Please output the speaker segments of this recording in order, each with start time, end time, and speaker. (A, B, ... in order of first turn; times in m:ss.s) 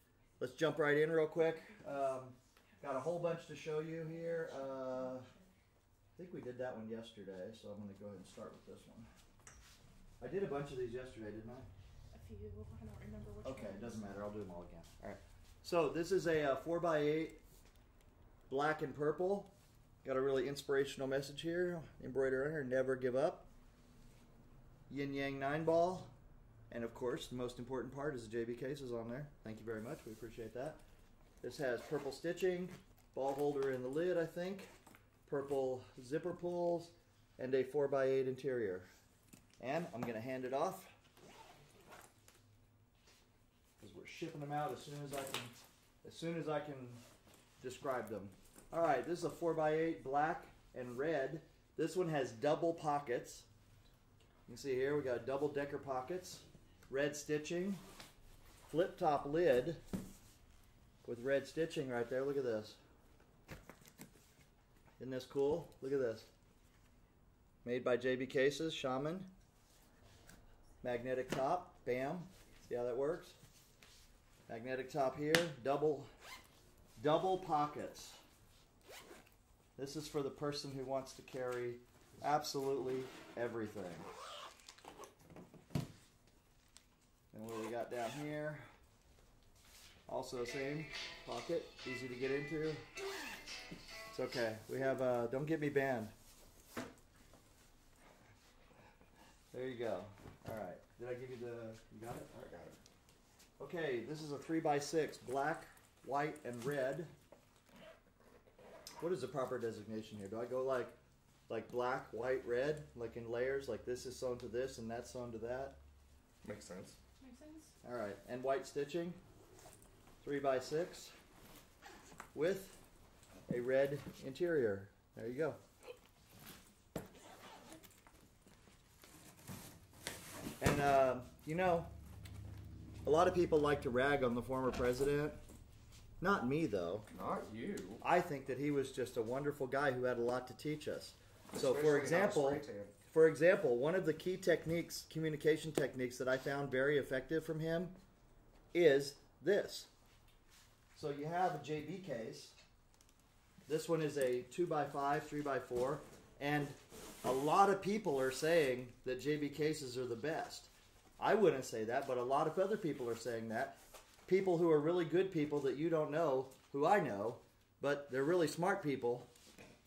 0:00.4-0:05.3 A
0:01.4-0:02.0 B
0:05.0-0:05.5 B
0:06.2-0:09.1 A
0:10.2-0:11.7 A
0:12.1-0:14.2 B
0:13.4-0:17.4 A
0:18.5-0:19.5 A
0:20.0-0:23.5 A
0:24.9-0:26.1 A
0:26.7-0:30.8 A
0:31.4-0:34.7 A
0:35.3-0:38.9 A
0:39.6-0:40.9 A
0:43.8-0:47.0 A
0:47.6-0:53.5 A
0:54.5-0:57.8 A
0:58.7-0:59.8 A
1:01.0-1:02.8 A
1:05.0-1:06.3 A
1:07.6-1:09.3 A
1:10.8-1:13.4 A
1:14.5-1:16.1 A
1:17.0-1:18.2 A
1:19.8-1:24.1 A
1:27.3-1:28.7 A
1:30.1-1:32.8 A
1:34.1-1:36.1 A
1:39.5-1:42.8 A
1:43.6-1:47.1 A
1:49.0-1:51.0 A
1:51.5-1:55.8 A
1:56.4-1:57.0 C
1:57.2-1:57.7 B
1:57.8-1:59.2 A
2:00.2-2:01.1 A
2:02.3-2:02.8 A
2:03.5-2:05.6 A
2:10.6-2:11.9 A
2:13.0-2:15.4 A
2:16.2-2:17.1 A
2:17.1-2:18.0 C
2:18.0-2:28.0 A
2:21.5-2:23.0 C
2:28.7-2:29.9 A
2:31.0-2:32.6 A
2:33.7-2:49.3 A